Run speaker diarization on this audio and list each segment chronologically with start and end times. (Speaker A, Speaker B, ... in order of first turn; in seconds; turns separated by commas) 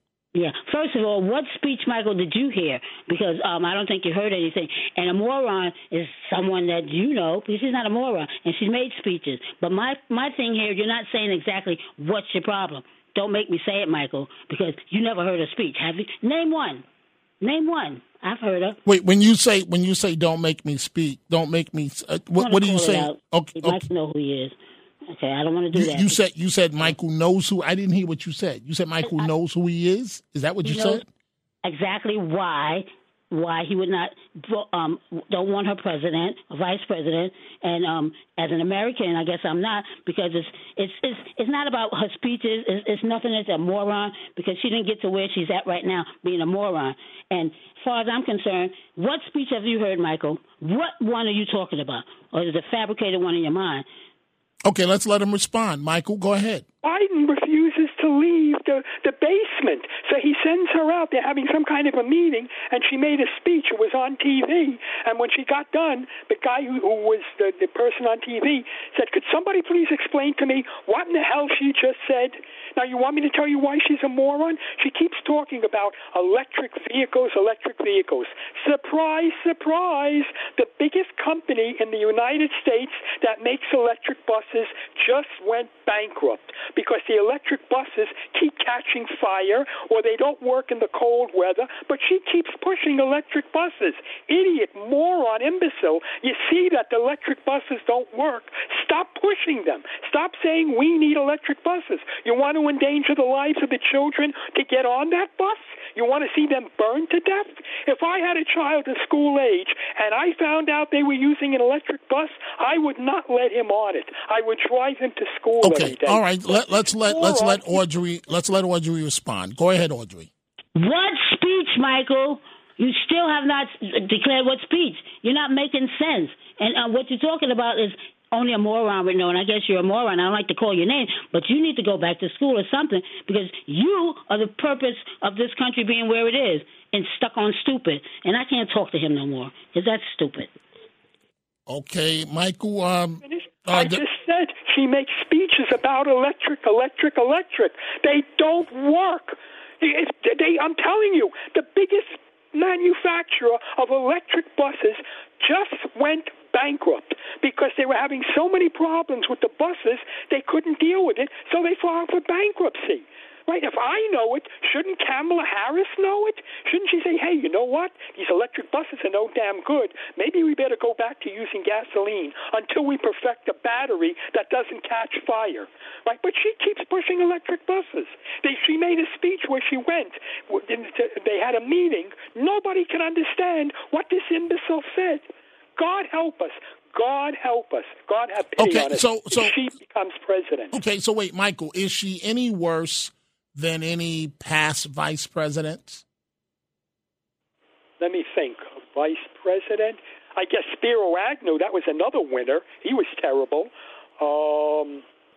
Speaker A: 0.3-16.8, Speaker A: 17.4-18.8, Speaker B: 18.9-23.8, Speaker A: 22.4-24.6, Speaker A: 25.1-26.2, Speaker B: 25.7-31.0, Speaker A: 29.0-29.3, Speaker A: 30.6-31.0, Speaker A: 31.6-53.8, Speaker B: 54.6-56.6, Speaker C: 56.8-117.8, Speaker B: 115.6-120.3, Speaker A: 120.8-140.5, Speaker B: 141.7-144.0, Speaker C: 143.2-190.7, Speaker B: 188.6-189.5, Speaker B: 190.7-196.0, Speaker C: 198.0-205.0